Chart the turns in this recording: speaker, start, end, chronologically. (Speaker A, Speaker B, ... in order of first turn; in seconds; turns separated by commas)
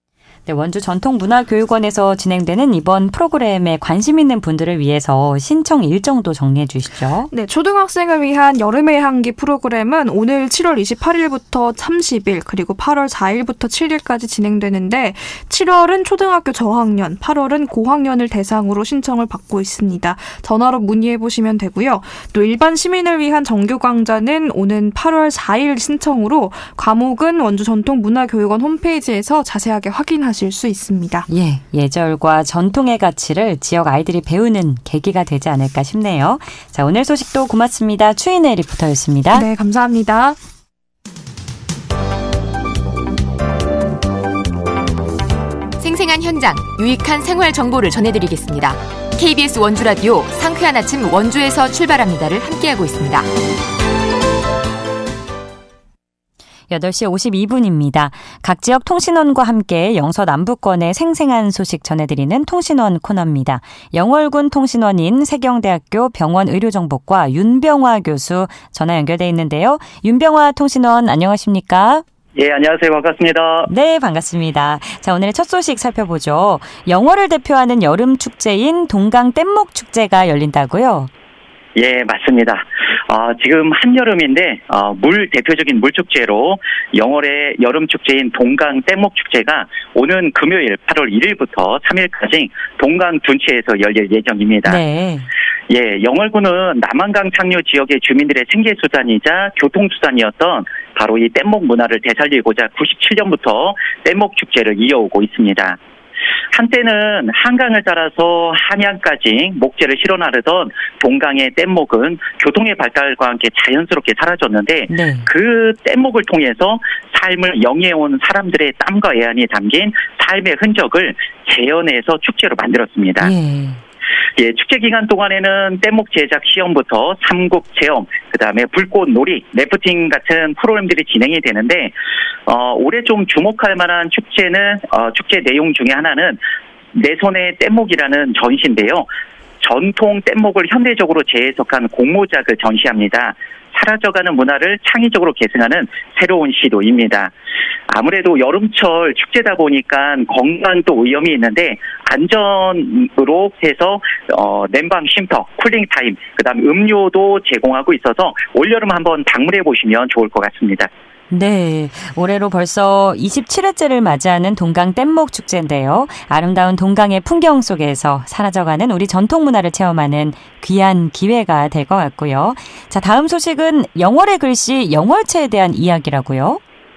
Speaker A: 0.5-7.3, Speaker B: 7.3-31.3, Speaker A: 31.3-39.5, Speaker B: 39.3-40.4, Speaker C: 45.8-53.3, Speaker A: 56.7-72.0, Speaker D: 72.4-73.7, Speaker A: 73.7-81.1, Speaker D: 81.8-94.8, Speaker A: 94.7-95.3, Speaker D: 95.7-105.8, Speaker D: 106.5-123.3, Speaker A: 114.9-115.3, Speaker A: 123.2-123.8, Speaker D: 124.4-132.0, Speaker D: 132.5-136.4, Speaker D: 136.9-139.1, Speaker D: 139.6-147.3, Speaker D: 147.9-160.9, Speaker A: 161.3-176.6